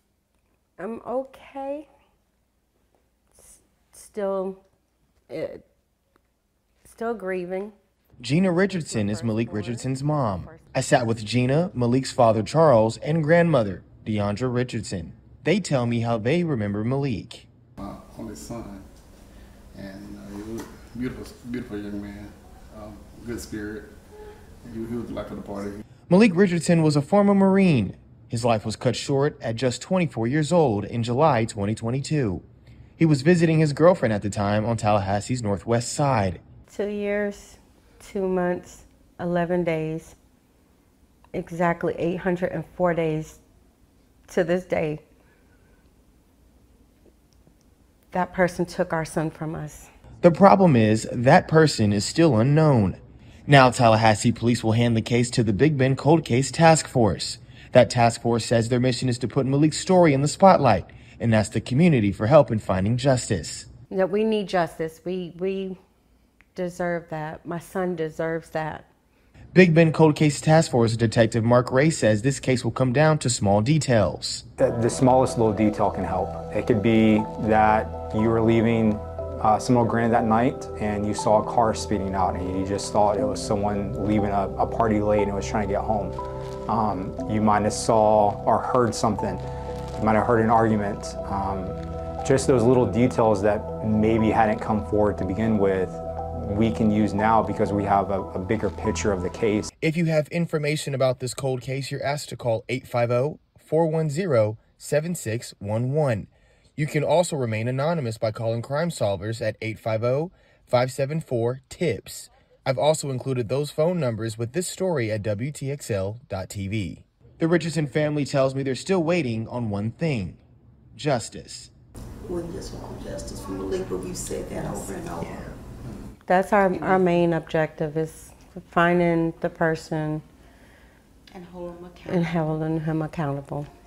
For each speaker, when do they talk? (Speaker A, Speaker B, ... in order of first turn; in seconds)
Speaker A: 0.8-1.9, 3.4-4.6, 5.3-5.6, 6.8-7.7, 8.5-10.9, 36.7-40.1, 41.3-43.4, 44.3-45.0, 48.1-49.9, 63.9-65.8, 66.5-68.9, 126.2-130.2, 132.1-133.7
Speaker B: 8.2-17.5, 26.1-32.4, 33.0-36.4, 50.2-63.7, 69.5-74.4, 99.8-120.4, 120.9-121.7
Speaker C: 17.8-18.8, 19.7-23.9, 24.6-25.8
Speaker D: 74.6-86.2, 86.7-89.4, 90.0-99.7
Speaker E: 122.2-125.5, 131.3-132.2